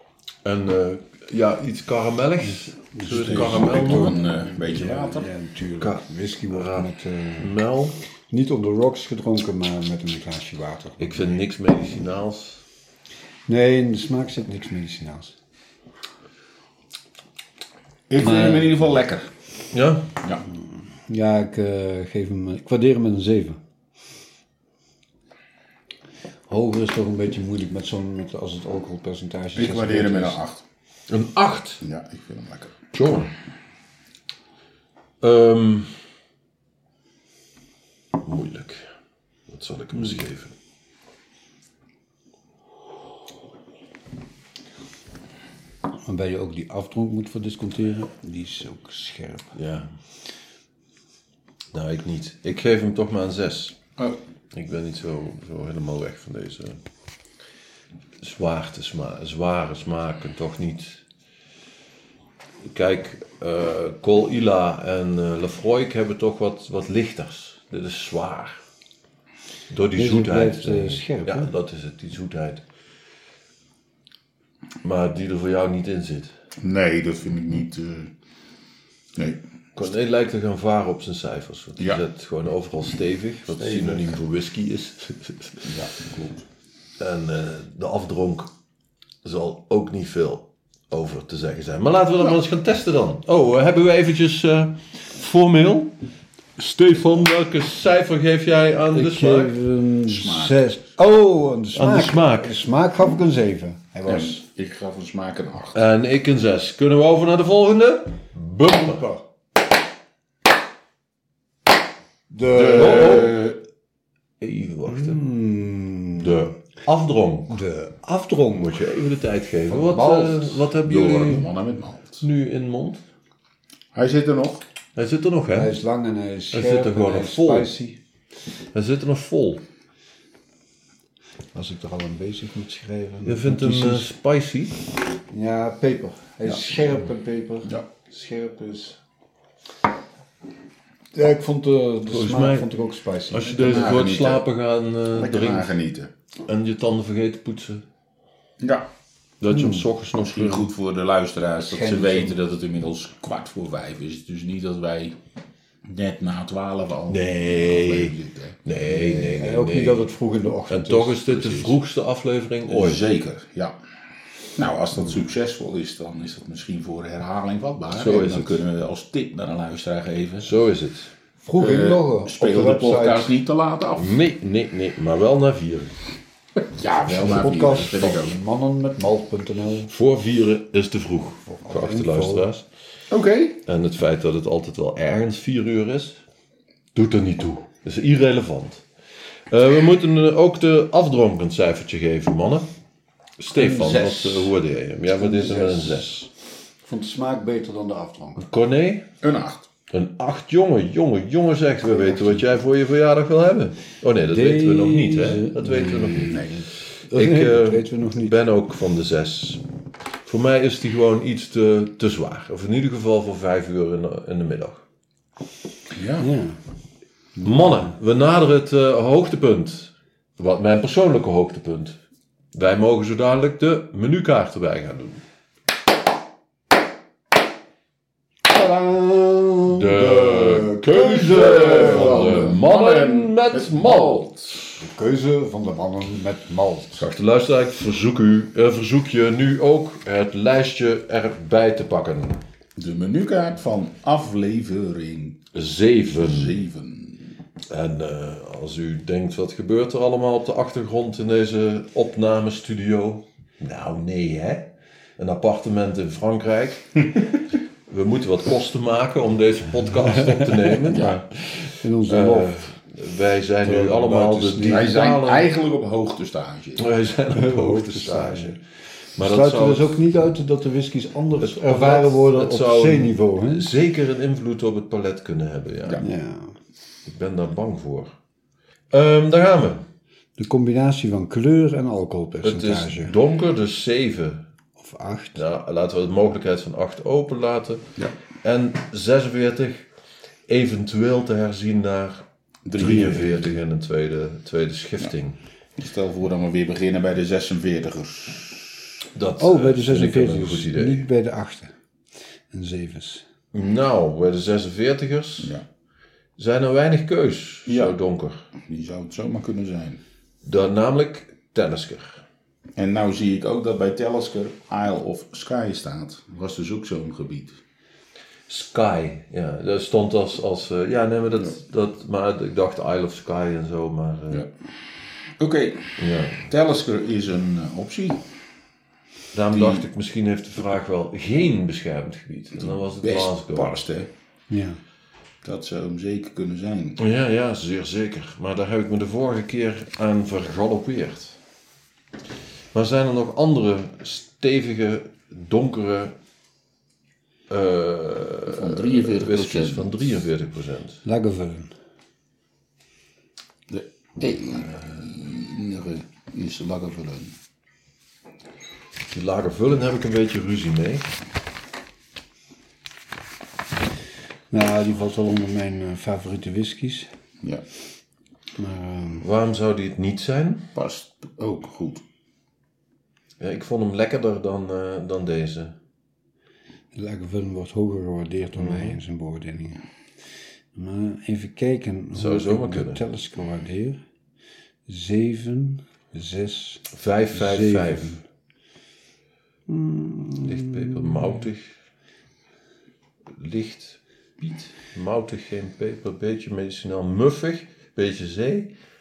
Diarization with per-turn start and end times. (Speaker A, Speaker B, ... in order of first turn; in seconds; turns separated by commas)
Speaker A: 0.4-4.2, Speaker B: 2.9-7.6, Speaker C: 3.1-5.3, Speaker A: 5.8-8.0, Speaker B: 8.3-11.4, Speaker A: 11.0-12.6, Speaker B: 13.5-15.3, Speaker C: 18.1-19.3, Speaker B: 18.2-18.7, Speaker A: 19.7-20.1, Speaker B: 21.1-23.6, Speaker B: 26.5-30.4, Speaker C: 29.6-30.6, Speaker A: 31.1-31.8, Speaker C: 31.8-32.8, Speaker A: 32.9-33.3, Speaker A: 35.2-35.9, Speaker A: 38.2-38.9, Speaker A: 39.5-40.5, Speaker B: 46.0-49.5, Speaker A: 49.6-49.9, Speaker A: 51.7-53.8, Speaker A: 54.5-56.8, Speaker A: 58.2-61.0, Speaker A: 62.7-68.6, Speaker A: 69.7-72.6, Speaker B: 69.9-71.5, Speaker A: 74.8-76.3, Speaker C: 76.6-78.1, Speaker C: 79.2-79.4, Speaker A: 79.8-85.7, Speaker C: 83.5-84.2, Speaker C: 85.7-86.5, Speaker A: 87.0-88.5, Speaker A: 89.2-95.9, Speaker A: 96.6-99.5, Speaker B: 98.9-104.4, Speaker C: 100.1-100.6, Speaker A: 101.8-102.5, Speaker C: 104.1-105.8, Speaker A: 105.7-109.1, Speaker B: 108.9-109.2, Speaker B: 112.3-113.3, Speaker C: 112.5-113.6, Speaker A: 112.6-113.4, Speaker A: 114.4-115.2, Speaker B: 114.9-116.4, Speaker A: 116.2-117.6, Speaker B: 117.5-118.8, Speaker A: 118.5-121.5, Speaker B: 119.7-120.7, Speaker C: 120.8-122.2, Speaker A: 122.2-123.0, Speaker C: 123.9-124.6, Speaker A: 125.0-125.8, Speaker B: 125.5-128.0, Speaker A: 126.5-127.7, Speaker A: 128.7-129.6, Speaker B: 131.5-134.1, Speaker A: 133.2-134.8, Speaker B: 135.3-139.0, Speaker B: 141.1-144.0, Speaker A: 142.1-142.7, Speaker A: 143.3-145.7, Speaker C: 143.6-144.4, Speaker C: 145.1-146.1, Speaker A: 146.5-147.8, Speaker C: 148.6-148.9, Speaker A: 149.4-150.7, Speaker B: 149.5-149.9, Speaker C: 150.2-155.2, Speaker B: 151.7-152.3, Speaker C: 155.8-158.6, Speaker A: 157.1-160.1, Speaker B: 158.9-161.7, Speaker A: 160.7-163.0, Speaker C: 162.7-163.8, Speaker C: 164.6-170.5, Speaker A: 167.9-168.6, Speaker A: 170.4-171.1, Speaker B: 171.4-173.3, Speaker C: 171.6-174.2, Speaker A: 174.0-176.0, Speaker C: 176.7-178.4, Speaker B: 177.2-179.9, Speaker A: 179.9-182.7, Speaker B: 181.5-182.5, Speaker C: 183.1-183.6, Speaker A: 183.7-186.2, Speaker A: 186.9-188.8, Speaker A: 189.5-192.7, Speaker A: 193.4-196.3, Speaker B: 193.5-194.5, Speaker B: 195.2-196.2, Speaker B: 196.8-198.4, Speaker A: 198.4-199.1, Speaker C: 199.2-199.7, Speaker A: 199.9-209.6, Speaker B: 201.9-202.4, Speaker B: 204.3-208.4, Speaker A: 210.2-214.8, Speaker C: 215.9-216.3, Speaker B: 216.2-216.6, Speaker B: 217.4-217.9, Speaker A: 217.4-222.0, Speaker A: 222.5-225.2, Speaker B: 228.5-232.5, Speaker A: 229.7-234.7, Speaker C: 231.3-234.6, Speaker B: 234.8-237.1, Speaker A: 237.0-242.4, Speaker C: 242.8-245.4, Speaker A: 245.5-246.6, Speaker C: 246.2-247.3, Speaker A: 247.7-257.3, Speaker A: 257.9-265.5, Speaker C: 260.9-261.2, Speaker B: 261.8-262.7, Speaker B: 263.6-265.0, Speaker C: 264.7-266.9, Speaker A: 266.8-268.6, Speaker B: 267.3-268.6, Speaker A: 269.2-270.0, Speaker B: 269.2-273.7, Speaker A: 271.4-276.0, Speaker B: 276.0-276.6, Speaker A: 277.1-278.1, Speaker A: 278.9-279.9, Speaker B: 280.4-283.1, Speaker A: 282.4-284.5, Speaker B: 284.8-285.4, Speaker A: 285.4-287.9, Speaker A: 288.4-289.9, Speaker A: 290.5-295.4, Speaker C: 292.7-293.5, Speaker C: 295.8-298.6, Speaker A: 299.1-301.1, Speaker B: 299.4-301.7, Speaker B: 302.5-303.2, Speaker A: 303.5-305.6, Speaker A: 306.4-308.5, Speaker C: 307.7-308.0, Speaker C: 308.6-310.0, Speaker A: 310.4-312.2, Speaker C: 312.8-317.6, Speaker A: 318.5-324.5, Speaker C: 325.4-328.2, Speaker A: 326.0-326.5, Speaker A: 329.3-333.8, Speaker C: 329.5-329.9, Speaker C: 332.6-334.1, Speaker B: 334.5-334.8, Speaker C: 335.4-337.0, Speaker A: 337.0-341.4, Speaker A: 342.7-346.1, Speaker A: 347.5-351.0, Speaker C: 348.5-350.1, Speaker B: 351.1-351.7, Speaker C: 353.7-357.4, Speaker A: 359.1-361.1, Speaker B: 364.5-367.1, Speaker B: 368.6-369.2, Speaker A: 369.2-370.7, Speaker C: 370.8-372.0, Speaker A: 373.4-375.7, Speaker B: 376.9-379.8, Speaker A: 378.6-379.0, Speaker B: 380.8-384.0, Speaker A: 382.1-383.0, Speaker B: 384.9-388.2, Speaker A: 386.9-388.2, Speaker B: 389.7-391.4, Speaker A: 390.4-391.7, Speaker A: 393.3-398.7